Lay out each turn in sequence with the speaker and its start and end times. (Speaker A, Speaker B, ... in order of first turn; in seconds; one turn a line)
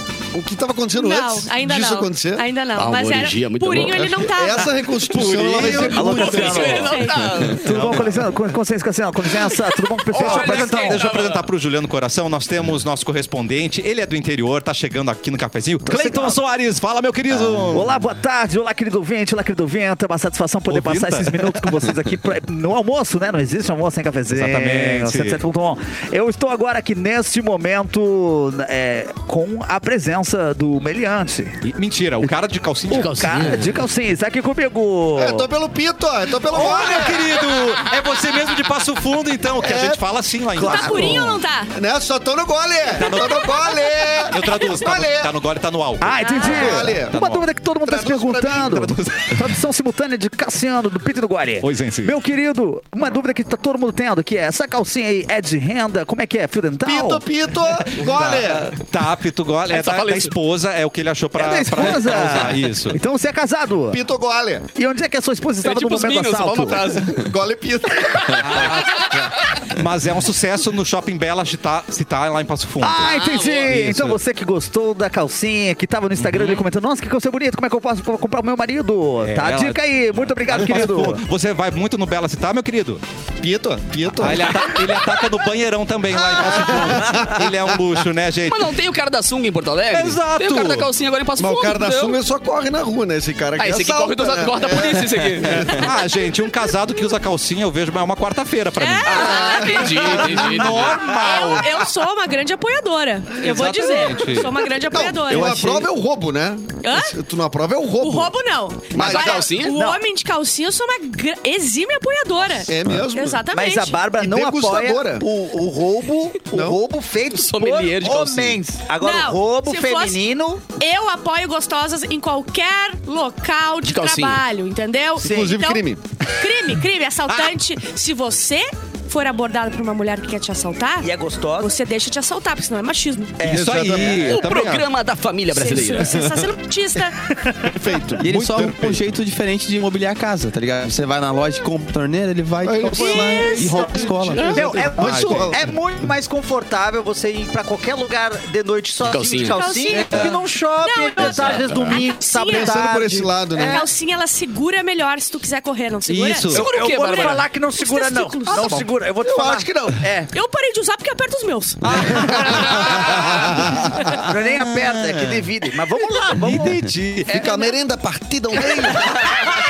Speaker A: 0.3-2.5
Speaker B: 0.9-7.3
Speaker C: 2.8-4.2
Speaker A: 3.8-7.0
Speaker D: 5.1-6.7
Speaker E: 5.5-7.0
Speaker C: 6.0-7.7
Speaker E: 7.5-11.1
Speaker D: 7.5-8.3
Speaker C: 10.1-11.4
Speaker D: 10.1-17.9
Speaker E: 15.9-16.4
Speaker E: 17.7-31.6
Speaker D: 20.7-21.5
Speaker D: 24.3-25.4
Speaker D: 31.6-33.2
Speaker E: 32.9-35.5
Speaker C: 32.9-33.8
Speaker A: 35.2-37.3
Speaker D: 36.4-41.2
Speaker E: 36.5-37.1
Speaker A: 39.6-40.0
Speaker E: 40.6-41.4
Speaker B: 40.6-41.7
Speaker A: 40.8-41.1
Speaker A: 41.7-45.3
Speaker D: 42.9-43.7
Speaker B: 43.3-44.3
Speaker D: 44.3-47.4
Speaker E: 46.0-57.2
Speaker B: 46.1-46.7
Speaker A: 46.4-47.1
Speaker A: 47.9-48.6
Speaker D: 48.5-49.4
Speaker D: 51.6-52.1
Speaker A: 56.8-58.8
Speaker D: 57.8-63.0
Speaker C: 59.7-60.3
Speaker E: 61.3-64.0
Speaker A: 63.9-64.7
Speaker E: 64.7-66.9
Speaker C: 65.6-67.2
Speaker A: 67.1-69.0
Speaker D: 68.3-74.2
Speaker E: 72.8-81.2
Speaker C: 73.0-73.8
Speaker D: 76.2-76.7
Speaker D: 79.2-83.0
Speaker A: 83.4-84.8
Speaker D: 84.2-88.7
Speaker A: 86.3-87.5
Speaker C: 88.5-92.2
Speaker D: 89.9-90.9
Speaker A: 91.4-95.9
Speaker C: 93.6-95.9
Speaker D: 95.6-101.9
Speaker B: 98.8-105.8
Speaker C: 99.0-101.1
Speaker A: 99.6-100.5
Speaker D: 103.4-104.6
Speaker A: 104.1-108.3
Speaker F: 105.3-105.8
Speaker B: 106.8-107.2
Speaker B: 108.0-114.0
Speaker A: 108.9-109.5
Speaker C: 108.9-109.8
Speaker E: 109.6-110.0
Speaker A: 112.6-113.4
Speaker E: 113.5-120.6
Speaker A: 114.1-115.2
Speaker A: 116.5-116.8
Speaker C: 117.3-118.6
Speaker B: 119.0-120.2
Speaker B: 120.8-125.8
Speaker C: 123.8-124.4
Speaker A: 125.2-126.0
Speaker E: 125.2-125.5
Speaker B: 126.4-133.5
Speaker E: 131.0-131.7
Speaker E: 133.4-134.1
Speaker D: 133.4-134.9
Speaker A: 133.4-134.5
Speaker C: 134.2-136.3
Speaker B: 135.5-137.2
Speaker A: 136.0-136.4
Speaker E: 137.4-137.7
Speaker A: 137.6-139.0
Speaker F: 138.2-145.5
Speaker D: 138.2-138.7
Speaker A: 142.6-145.6
Speaker B: 142.9-143.8
Speaker E: 143.0-153.9
Speaker C: 149.0-149.6
Speaker B: 149.4-152.8
Speaker C: 151.2-152.0
Speaker A: 152.5-153.9
Speaker B: 153.6-158.9
Speaker D: 156.1-156.6
Speaker E: 156.5-160.3
Speaker C: 156.5-157.4
Speaker A: 159.2-160.0
Speaker B: 160.3-162.2
Speaker D: 161.8-165.4
Speaker E: 162.0-162.6
Speaker A: 162.3-164.0
Speaker E: 164.1-167.7
Speaker D: 166.3-167.4
Speaker A: 167.3-169.5